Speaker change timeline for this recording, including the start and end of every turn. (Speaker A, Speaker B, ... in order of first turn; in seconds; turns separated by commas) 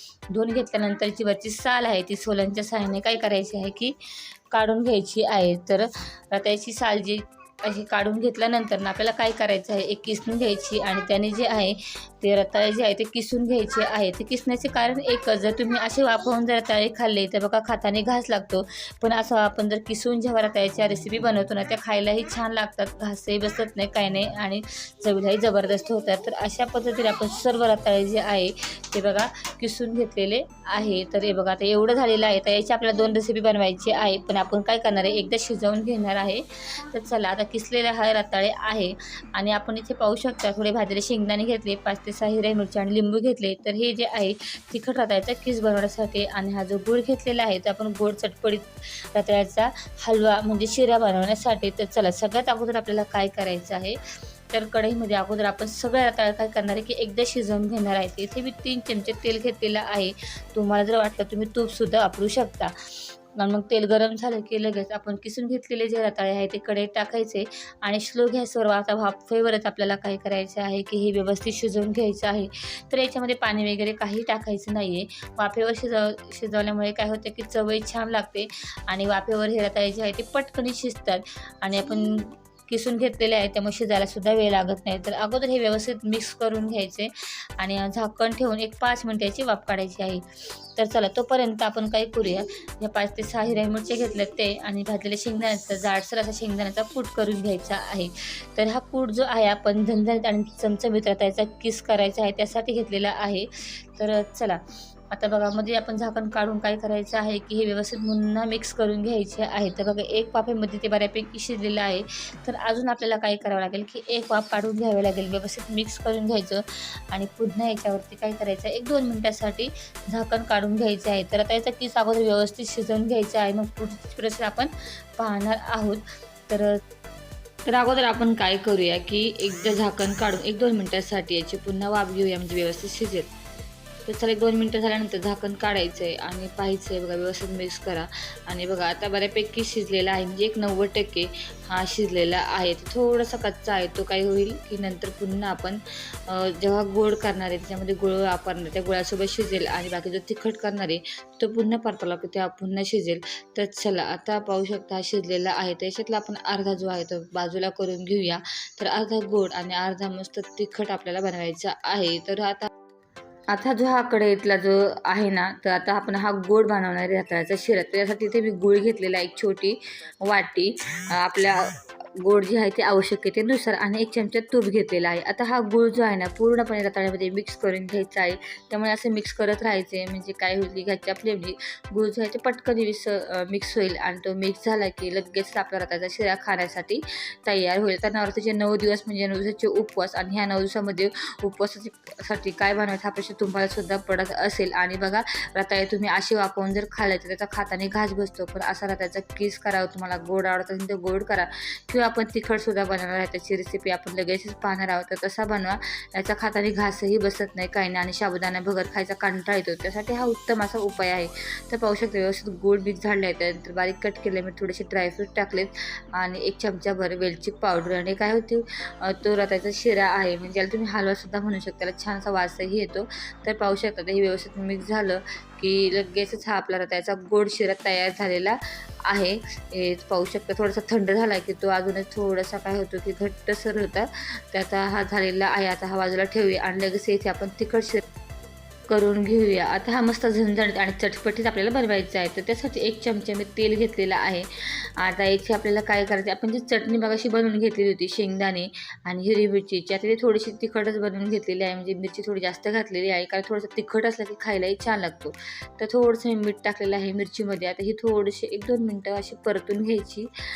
Speaker A: 0.3-3.9, Speaker A: 4.5-54.0, Speaker A: 54.5-62.7, Speaker A: 63.4-90.2, Speaker A: 90.8-104.6, Speaker A: 105.1-126.7, Speaker A: 127.7-133.3, Speaker A: 134.1-162.7, Speaker A: 163.5-238.0, Speaker A: 238.9-244.5, Speaker A: 245.0-260.3